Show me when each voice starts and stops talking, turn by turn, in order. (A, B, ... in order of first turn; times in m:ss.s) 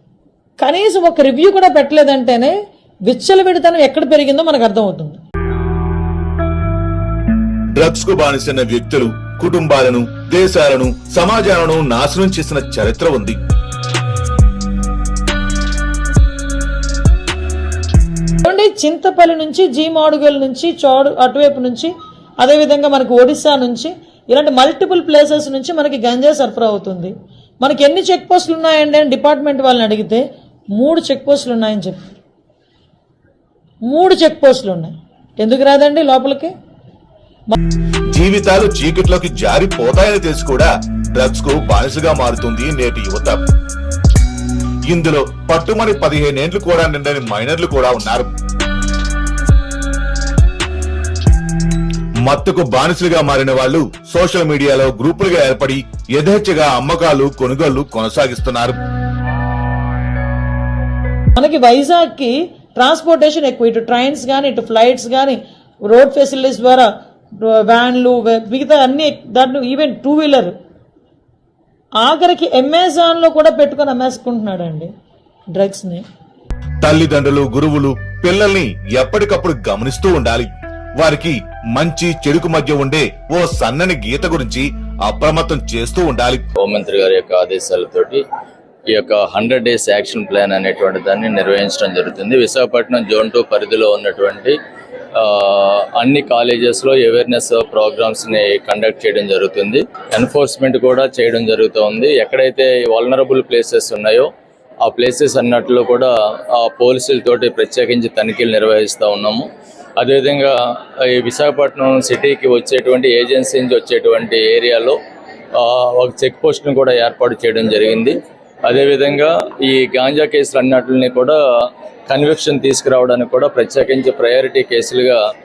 0:00.6-0:02.5 A
0:03.1-0:05.2 A
0:07.7-0:13.4 B
0:18.4-0:30.2 A
0:30.8-0:32.1 A
0:33.8-0:36.5 A
0:38.1-0:43.4 B
0:44.9-0:48.3 B
0:52.2-0:58.8 B
1:01.3-1:10.5 A
1:12.0-1:14.9 A
1:15.5-1:16.0 A
1:16.8-1:26.5 B
1:26.6-1:28.2 C
1:28.9-1:34.6 C
1:35.1-1:44.3 C
1:44.8-1:49.5 C
1:50.0-1:55.0 C
1:55.5-2:05.2 C